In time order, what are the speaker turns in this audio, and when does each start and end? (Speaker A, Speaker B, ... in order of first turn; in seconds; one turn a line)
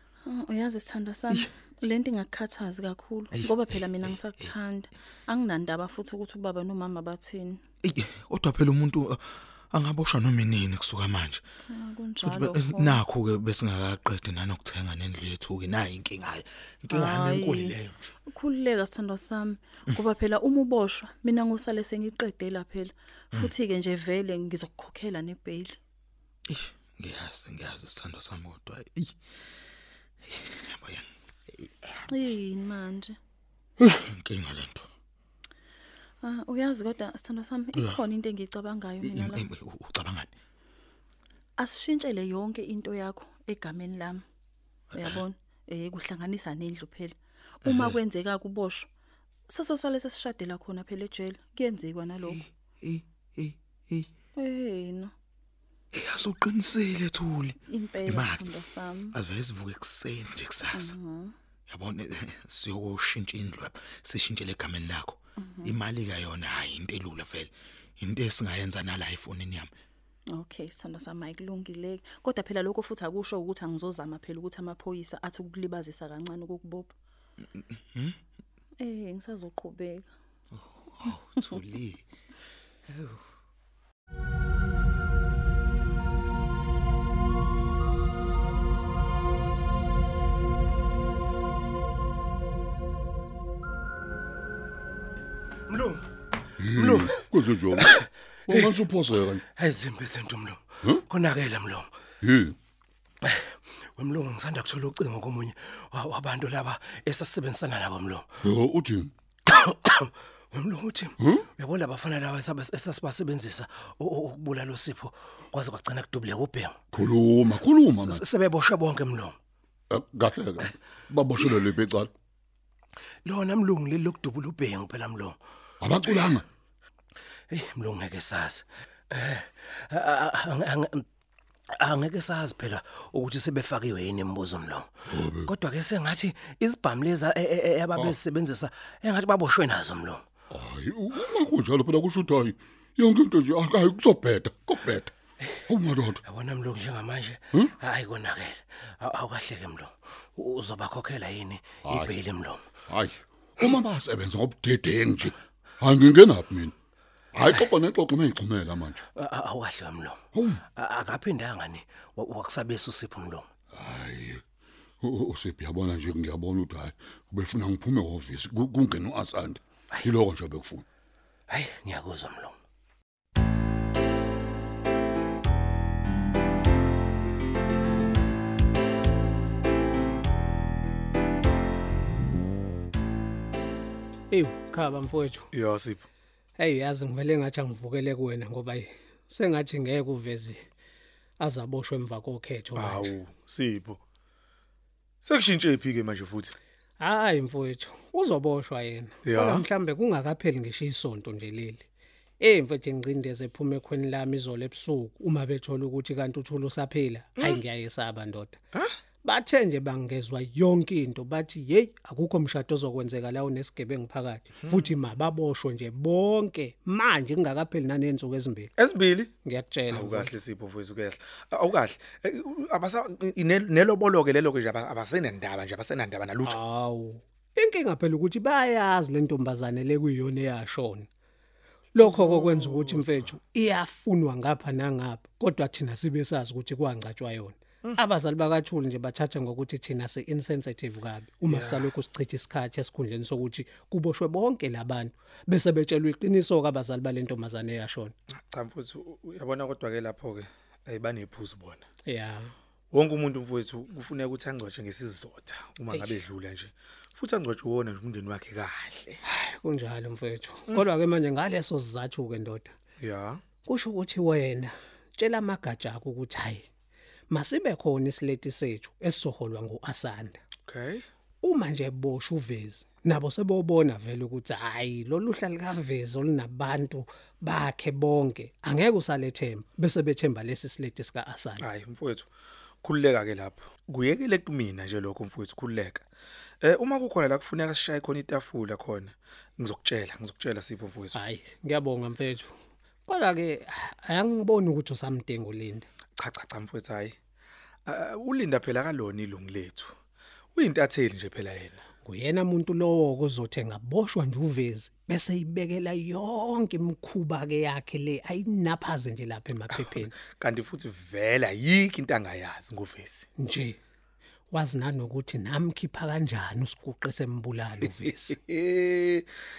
Speaker A: 0.3-7.6
Speaker B: 3.3-4.5
Speaker B: 7.8-11.4
Speaker A: 11.7-13.0
Speaker B: 12.2-18.1
Speaker A: 16.9-17.8
Speaker A: 18.3-25.8
Speaker B: 26.5-29.1
Speaker B: 30.3-31.1
Speaker B: 31.6-31.9
Speaker A: 32.1-33.2
Speaker B: 33.9-34.9
Speaker A: 36.2-39.5
Speaker B: 39.0-40.3
Speaker A: 41.6-44.2
Speaker A: 44.9-48.9
Speaker B: 45.0-45.2
Speaker B: 47.6-48.0
Speaker A: 49.5-52.4
Speaker B: 52.2-54.1
Speaker A: 54.4-55.1
Speaker B: 55.9-58.5
Speaker A: 57.7-59.2
Speaker B: 59.1-61.0
Speaker A: 60.7-61.4
Speaker B: 61.7-69.7
Speaker A: 65.4-65.8
Speaker A: 70.3-76.9
Speaker A: 78.8-80.1
Speaker B: 80.5-82.0
Speaker B: 82.9-83.2
Speaker C: 95.7-96.0
Speaker D: 96.6-97.9
Speaker C: 96.7-98.9
Speaker D: 98.5-99.4
Speaker C: 99.5-101.9
Speaker D: 102.2-102.6
Speaker C: 104.0-108.3
Speaker D: 108.4-109.1
Speaker C: 109.5-116.8
Speaker D: 116.9-118.2
Speaker C: 118.0-119.4
Speaker D: 119.9-122.1
Speaker C: 123.2-125.4
Speaker D: 125.8-126.5
Speaker C: 127.5-131.1
Speaker C: 131.8-134.9
Speaker D: 135.1-135.5
Speaker C: 135.4-140.2
Speaker D: 140.5-145.1
Speaker D: 145.7-146.2
Speaker C: 146.2-152.7
Speaker D: 151.8-152.2
Speaker D: 152.9-156.8
Speaker D: 157.3-159.0
Speaker C: 159.1-163.5
Speaker D: 160.3-160.6
Speaker D: 163.7-164.4
Speaker D: 165.0-170.8
Speaker C: 171.5-172.5
Speaker E: 184.3-185.5
Speaker F: 185.5-186.1
Speaker E: 186.6-190.7
Speaker E: 191.4-193.1
Speaker F: 192.8-194.0
Speaker F: 195.2-196.6
Speaker E: 197.0-201.9
Speaker F: 199.2-199.7
Speaker E: 202.4-208.6
Speaker E: 209.2-218.7
Speaker F: 218.8-219.3
Speaker E: 219.4-220.3
Speaker F: 219.9-226.6
Speaker E: 226.4-231.1
Speaker E: 231.9-248.2
Speaker F: 232.0-233.0
Speaker F: 241.5-241.9
Speaker F: 248.5-251.8
Speaker E: 252.1-252.5
Speaker F: 252.9-259.2
Speaker E: 259.3-262.7
Speaker F: 263.0-263.4
Speaker E: 263.6-266.6
Speaker E: 267.3-270.4
Speaker F: 270.6-271.1
Speaker E: 271.4-281.6
Speaker F: 281.6-282.3
Speaker F: 282.8-286.1
Speaker F: 286.6-291.2
Speaker E: 291.1-292.6
Speaker E: 293.1-295.9
Speaker F: 296.2-297.2
Speaker F: 297.9-299.9
Speaker F: 300.6-301.8
Speaker E: 302.0-310.1
Speaker F: 310.3-313.3
Speaker E: 313.4-313.8
Speaker E: 314.5-318.4
Speaker F: 318.5-319.3